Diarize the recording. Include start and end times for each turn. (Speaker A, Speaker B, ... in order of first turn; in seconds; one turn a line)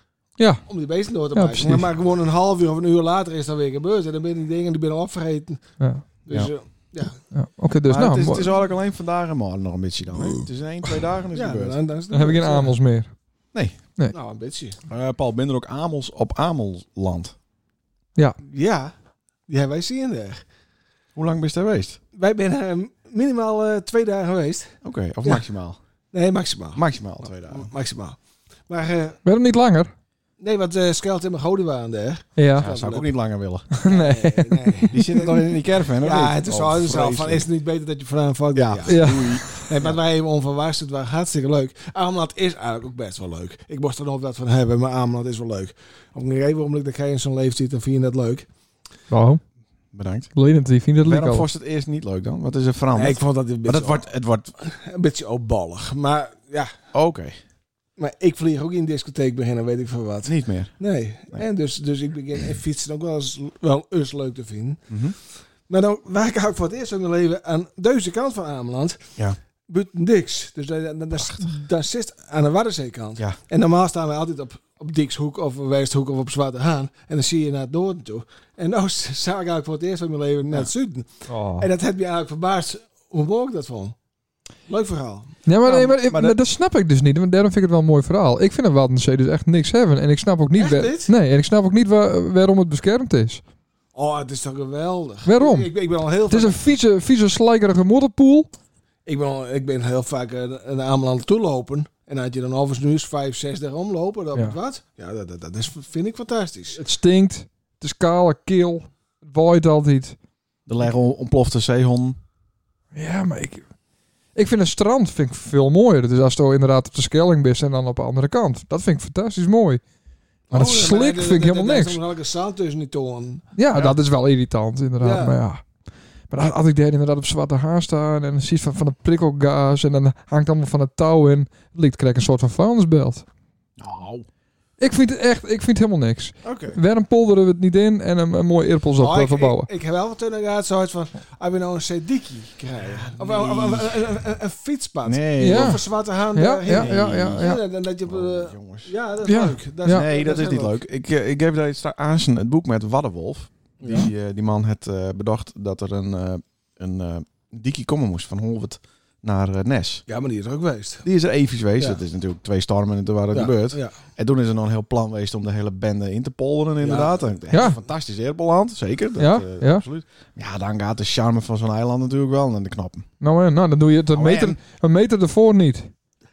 Speaker A: 0.4-0.6
Speaker B: 0.7-7.2
Speaker A: 1.3-1.9
Speaker A: 5.8-6.0
Speaker A: 7.3-8.5
Speaker C: 7.9-11.8
Speaker B: 11.3-12.8
Speaker A: 12.1-13.1
Speaker B: 14.1-14.8
Speaker C: 14.9-17.4
Speaker B: 18.4-18.9
Speaker B: 19.5-20.4
Speaker C: 21.1-22.0
Speaker B: 22.1-25.4
Speaker C: 24.8-25.8
Speaker B: 26.1-29.2
Speaker C: 26.8-27.7
Speaker A: 29.2-29.9
Speaker B: 30.4-33.1
Speaker A: 32.4-32.7
Speaker C: 32.5-33.7
Speaker A: 33.8-35.0
Speaker B: 33.9-35.5
Speaker C: 34.9-37.5
Speaker B: 36.0-48.5
Speaker C: 38.5-40.0
Speaker A: 38.9-39.6
Speaker A: 49.1-49.4
Speaker C: 49.9-50.3
Speaker A: 50.3-51.5
Speaker C: 51.0-54.5
Speaker B: 52.9-54.0
Speaker B: 54.6-56.7
Speaker C: 56.9-57.4
Speaker B: 58.0-64.8
Speaker C: 60.2-60.7
Speaker C: 64.9-65.1
Speaker B: 65.7-69.1
Speaker B: 69.7-84.0
Speaker A: 81.3-81.7
Speaker B: 84.7-85.3
Speaker A: 85.5-93.4
Speaker C: 85.6-86.4
Speaker B: 90.5-91.1
Speaker B: 93.9-96.6
Speaker A: 95.2-95.7
Speaker A: 96.3-98.5
Speaker B: 99.0-106.8
Speaker A: 106.8-110.2
Speaker C: 110.7-112.2
Speaker A: 112.9-113.6
Speaker A: 114.3-119.8
Speaker A: 120.5-122.0
Speaker B: 120.5-123.4
Speaker A: 123.6-125.6
Speaker B: 125.0-125.4
Speaker A: 126.3-133.2
Speaker C: 133.8-134.2
Speaker A: 134.8-139.7
Speaker C: 136.4-136.8
Speaker B: 139.0-150.8
Speaker C: 143.1-144.0
Speaker C: 145.1-145.8
Speaker A: 145.4-145.8
Speaker A: 146.3-147.6
Speaker C: 146.7-147.5
Speaker C: 148.1-148.9
Speaker A: 149.2-150.0
Speaker C: 149.9-160.0
Speaker B: 153.8-154.1
Speaker B: 160.1-161.1
Speaker C: 161.0-173.1
Speaker B: 163.3-163.9
Speaker B: 166.8-167.2
Speaker A: 167.5-167.8
Speaker A: 169.2-169.9
Speaker A: 173.2-175.9
Speaker C: 174.1-174.6